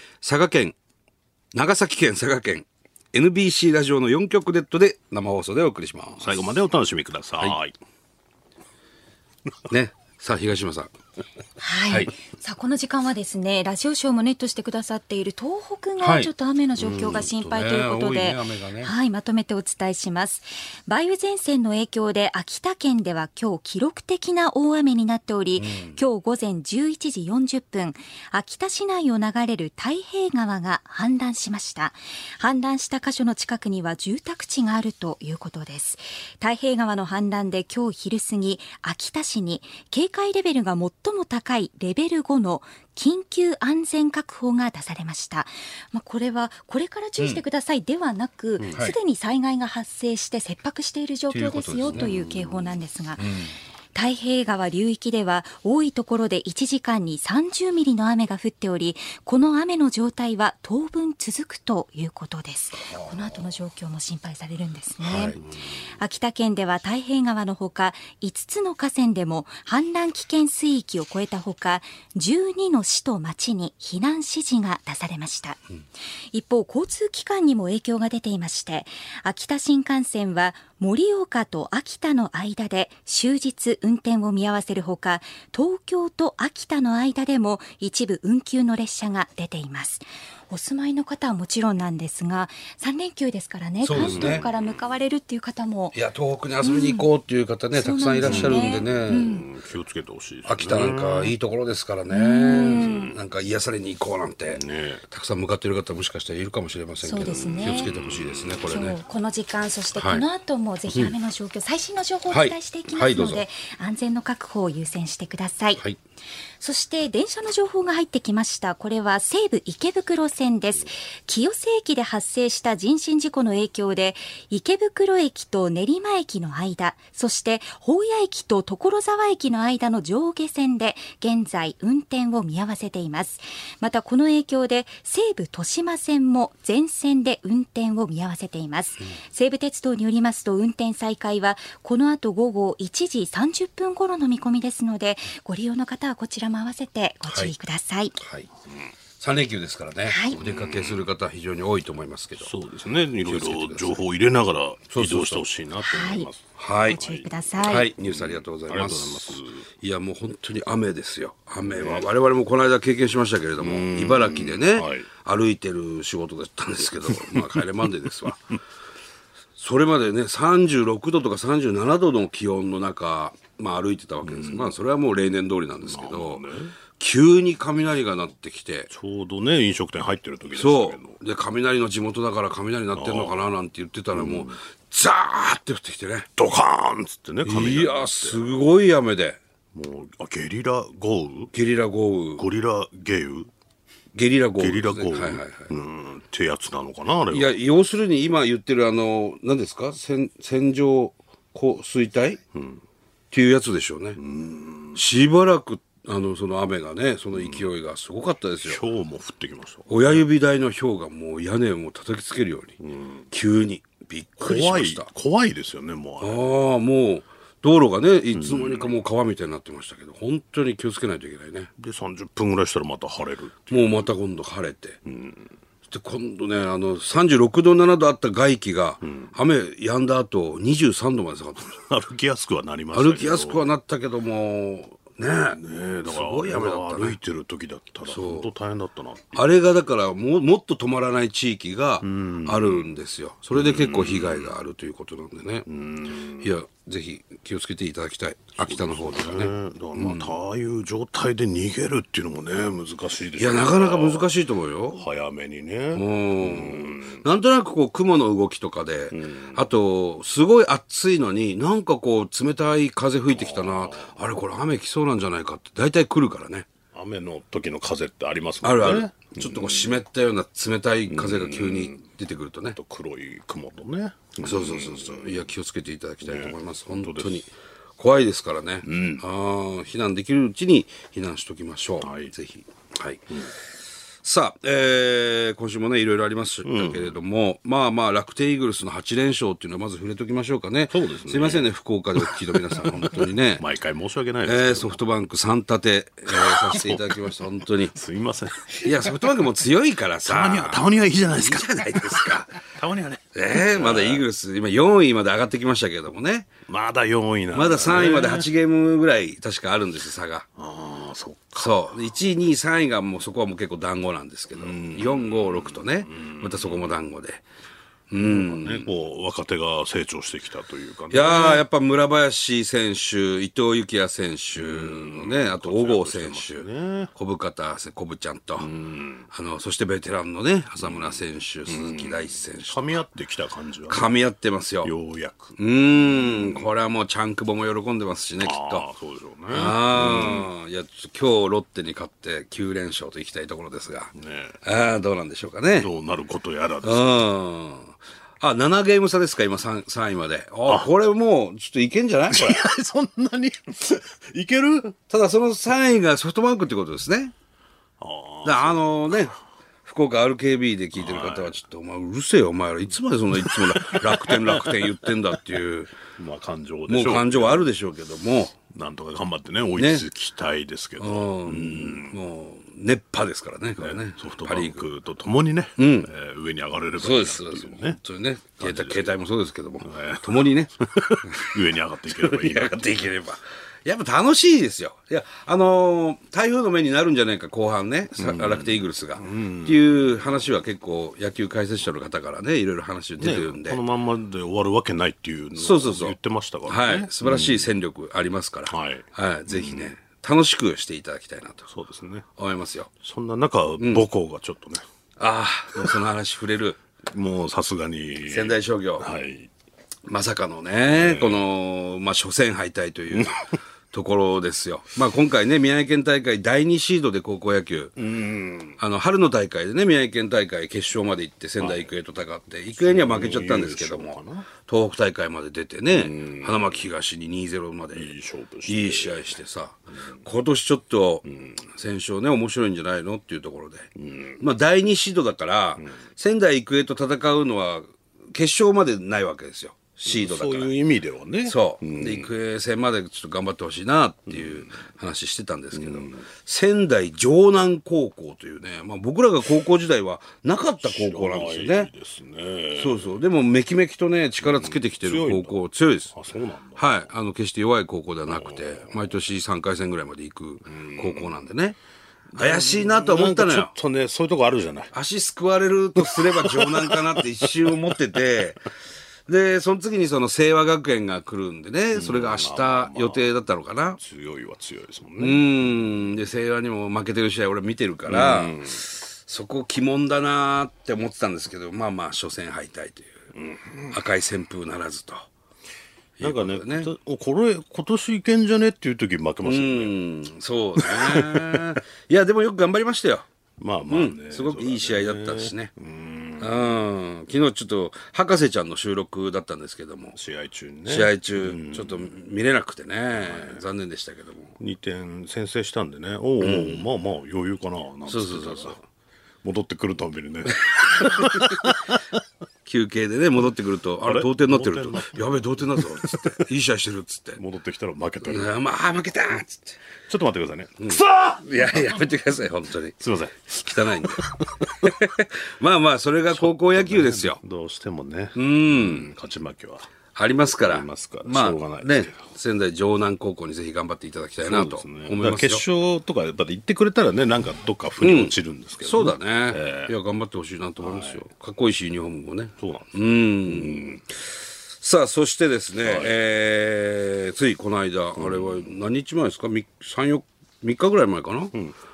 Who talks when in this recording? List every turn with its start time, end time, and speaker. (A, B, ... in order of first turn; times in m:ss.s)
0:00.2-0:00.8 A
0:01.5-0:06.4 A
0:06.1-0:07.8 B
0:09.7-0:10.9 A
0:11.6-0:53.3 C
0:16.0-0:16.3 A
0:16.9-0:18.9 A
0:25.6-0:26.0 A
0:48.6-0:48.8 B
0:51.3-0:53.5 A
0:54.0-1:05.4 C
1:05.0-1:05.4 A
1:06.0-1:15.6 C
1:16.3-1:36.0 C
1:33.8-1:34.5 A
1:34.0-1:34.6 B
1:35.9-1:39.4 A
1:36.6-1:37.1 C
1:37.8-1:39.5 C
1:38.2-1:41.3 B
1:40.5-1:49.0 A
1:42.1-1:43.2 C
1:44.5-1:45.0 B
1:47.0-1:47.9 C
1:47.4-1:48.8 B
1:48.7-1:55.8 C
1:50.0-1:50.3 A
1:52.3-1:53.4 A
1:56.6-2:28.2 C
2:27.3-2:27.5 A
2:28.2-2:28.5 A
2:29.2-2:32.5 A
2:30.1-2:30.4 C
2:30.4-2:31.1 B
2:32.4-2:39.6 B
2:33.2-2:34.0 A
2:34.9-2:35.4 A
2:35.9-2:36.3 C
2:36.6-2:37.0 A
2:36.9-2:37.9 C
2:37.6-2:48.5 A
2:41.6-2:42.1 B
2:43.6-2:45.1 B
2:47.1-2:47.6 B
2:49.6-2:56.4 A
2:54.2-2:54.7 B
2:55.8-2:56.8 B
2:57.0-2:58.9 A
2:58.9-3:01.2 B
3:00.5-3:06.3 A
3:02.9-3:03.5 B
3:04.1-3:04.6 B
3:06.4-3:08.6 B
3:07.4-3:09.4 A
3:09.7-3:11.5 B
3:11.5-3:12.4 A
3:12.4-3:13.5 B
3:14.1-3:15.7 A
3:14.6-3:17.6 B
3:17.3-3:22.4 A
3:22.5-3:22.8 B
3:23.3-3:24.2 A
3:24.2-3:25.0 B
3:24.9-3:28.8 A
3:27.4-3:27.7 B
3:28.6-3:30.3 B
3:29.9-3:32.8 A
3:32.8-3:33.3 B
3:33.3-3:35.1 A
3:34.4-3:36.6 B
3:36.2-3:41.7 A
3:38.3-3:39.0 B
3:41.8-3:44.1 B
3:43.7-3:45.0 A
3:45.1-3:45.5 B
3:45.9-3:51.8 A
3:49.0-3:49.3 B
3:51.7-3:53.7 B
3:52.9-3:57.2 A
3:55.5-3:59.4 B
3:58.1-3:58.5 A
3:59.3-4:05.7 A
4:02.0-4:03.0 B
4:03.5-4:04.5 B
4:05.7-4:06.5 B
4:06.4-4:10.3 A
4:08.6-4:14.3 B
4:13.4-4:15.0 A
4:15.0-4:17.2 B
4:15.9-4:26.7 A
4:19.1-4:19.7 B
4:23.3-4:24.2 B
4:26.9-4:29.9 B
4:28.6-4:32.8 A
4:31.1-4:32.0 B
4:32.8-4:35.5 B
4:34.4-4:43.5 A
4:36.2-4:37.4 B
4:38.8-4:39.2 B
4:42.0-4:42.3 B
4:44.2-4:53.6 A
4:46.6-4:47.2 B
4:50.9-4:55.0 B
4:54.4-4:58.0 A
4:56.3-4:59.4 B
4:58.8-5:02.6 A
5:00.2-5:04.2 B
5:03.3-5:06.5 A
5:06.7-5:08.5 B
5:07.5-5:10.5 A
5:10.6-5:12.0 B
5:11.6-5:17.4 A
5:14.6-5:17.0 B
5:18.1-5:18.9 A
5:18.2-5:21.6 B
5:21.1-5:28.7 A
5:24.6-5:27.1 B
5:28.6-5:29.3 B
5:29.3-5:32.9 A
5:30.8-5:34.1 B
5:33.9-5:34.9 A
5:34.8-5:36.7 B
5:35.6-5:38.9 A
5:38.4-5:40.5 B
5:39.5-5:45.9 A
5:44.2-5:44.6 B
5:45.7-5:47.2 B
5:46.8-5:52.6 A
5:52.3-5:55.0 B
5:55.1-5:57.3 A
5:58.0-5:59.1 B
5:58.4-6:06.0 A
6:01.0-6:01.6 B
6:03.3-6:05.1 B
6:06.1-6:07.7 B
6:06.9-6:08.6 A
6:08.7-6:12.2 B
6:09.8-6:10.1 A
6:11.0-6:14.9 A
6:13.8-6:18.0 B
6:15.8-6:16.1 A
6:17.0-6:21.6 A
6:18.6-6:19.2 B
6:19.8-6:23.0 B
6:22.1-6:33.8 A
6:28.2-6:30.4 B
6:33.2-6:37.7 B
6:35.6-6:36.2 A
6:36.7-6:41.7 A
6:38.7-6:39.9 B
6:41.7-6:42.3 B
6:42.4-6:42.9 A
6:43.0-6:44.8 B
6:43.8-6:44.1 A
6:45.2-6:46.8 A
6:47.1-6:49.5 B
6:48.3-6:49.1 A
6:50.1-6:58.0 A
6:50.9-6:51.5 B
6:58.0-6:58.8 B
6:58.8-7:08.1 A
7:01.6-7:01.9 B
7:02.7-7:04.5 B
7:05.9-7:06.8 B
7:07.9-7:09.4 B
7:08.7-7:13.9 A
7:11.3-7:11.6 B
7:14.0-7:14.4 B
7:14.4-7:20.8 A
7:20.1-7:22.3 B
7:21.4-7:31.9 A
7:24.3-7:24.7 B
7:25.7-7:26.2 B
7:30.8-7:33.2 B
7:32.8-7:36.1 A
7:34.4-7:35.6 B
7:36.1-7:37.1 B
7:36.8-7:41.8 A
7:38.3-7:39.1 B
7:40.7-7:41.4 B
7:42.3-7:44.9 B
7:42.4-7:43.7 A
7:44.9-7:48.7 A
7:46.0-7:47.7 B
7:49.3-7:54.0 A
7:52.0-7:53.4 B
7:54.0-7:56.1 B
7:55.2-8:03.2 A
7:58.1-7:58.8 B
8:03.4-8:04.0 B
8:03.9-8:05.3 A
8:06.2-8:06.9 A
8:06.2-8:10.0 B
8:09.4-8:13.3 A
8:10.8-8:11.8 B
8:13.6-8:16.8 B
8:13.9-8:15.7 A
8:16.4-8:20.2 A
8:20.2-8:22.1 B
8:20.9-8:24.6 A
8:23.1-8:23.6 B
8:24.6-8:28.8 B
8:26.4-8:26.9 A
8:28.1-8:28.8 A
8:29.4-8:32.2 B
8:31.1-8:31.7 A
8:32.6-8:37.4 A
8:34.0-8:36.4 B
8:37.4-8:38.5 B
8:38.3-8:39.8 A
8:40.1-8:42.0 B
8:40.8-8:43.0 A
8:43.0-8:45.0 B
8:43.6-8:47.4 A
8:46.3-8:49.9 B
8:48.4-8:49.1 A
8:50.2-8:55.6 A
8:50.7-8:52.2 B
8:54.4-9:00.0 B
8:58.0-9:04.0 A
9:00.8-9:01.3 B
9:02.6-9:04.0 B
9:04.8-9:11.6 A
9:05.8-9:06.2 B
9:08.2-9:08.7 B